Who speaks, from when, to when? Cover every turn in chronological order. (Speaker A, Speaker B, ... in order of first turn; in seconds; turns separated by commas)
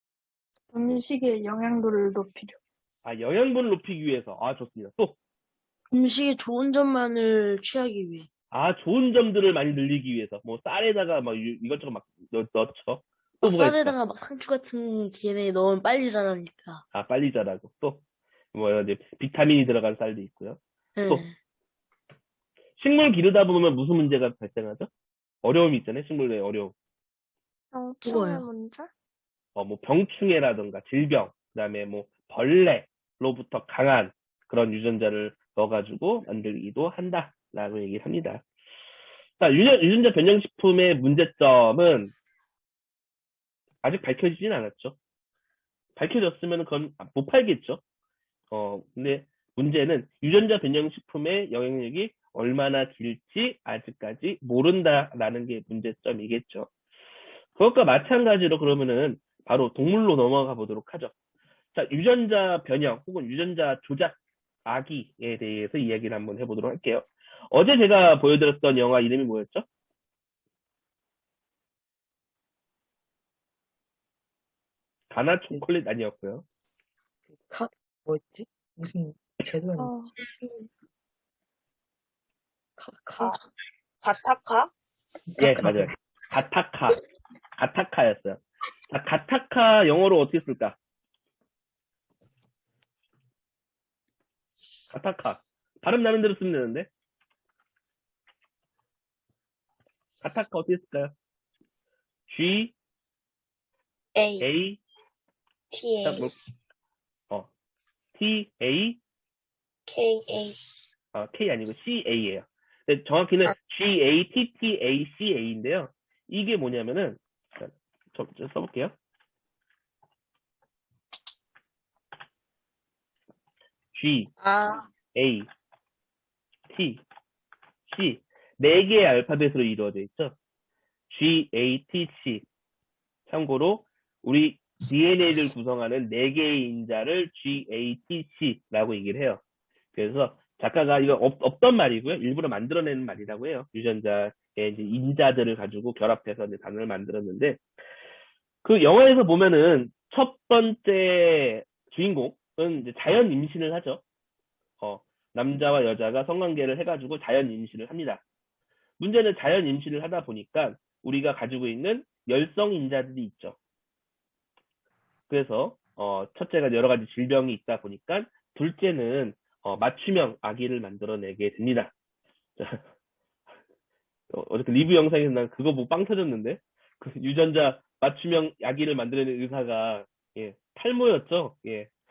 Speaker A: 0.7-2.6, Speaker B: 3.0-5.2, Speaker C: 5.9-8.3, Speaker B: 8.5-13.9, Speaker C: 13.4-16.8, Speaker B: 16.9-18.0, Speaker B: 18.5-21.2, Speaker C: 21.0-21.3, Speaker B: 22.8-24.9, Speaker B: 25.4-26.7, Speaker A: 27.7-28.9, Speaker C: 28.0-28.4, Speaker B: 29.5-38.4, Speaker B: 39.4-42.1, Speaker B: 43.8-45.0, Speaker B: 46.0-47.8, Speaker B: 48.5-56.7, Speaker B: 57.5-61.1, Speaker B: 61.7-69.7, Speaker B: 75.1-76.4, Speaker D: 77.3-80.6, Speaker A: 79.8-80.1, Speaker D: 82.8-83.3, Speaker E: 84.0-84.7, Speaker B: 85.4-87.0, Speaker D: 85.5-85.9, Speaker B: 87.6-90.8, Speaker B: 94.9-96.9, Speaker B: 100.2-101.1, Speaker B: 102.3-102.7, Speaker E: 104.1-104.5, Speaker B: 104.4-104.8, Speaker E: 105.7-106.3, Speaker B: 106.0-106.3, Speaker B: 108.1-109.0, Speaker E: 109.9-110.5, Speaker B: 111.1-119.0, Speaker B: 123.9-124.3, Speaker E: 124.4-124.8, Speaker B: 125.1-125.5, Speaker B: 126.7-127.0, Speaker B: 127.9-130.3, Speaker B: 131.1-132.4, Speaker B: 133.3-139.4, Speaker B: 139.9-147.6, Speaker B: 148.6-154.0, Speaker B: 154.8-158.2, Speaker B: 159.0-163.6, Speaker B: 165.3-171.9, Speaker B: 174.3-181.9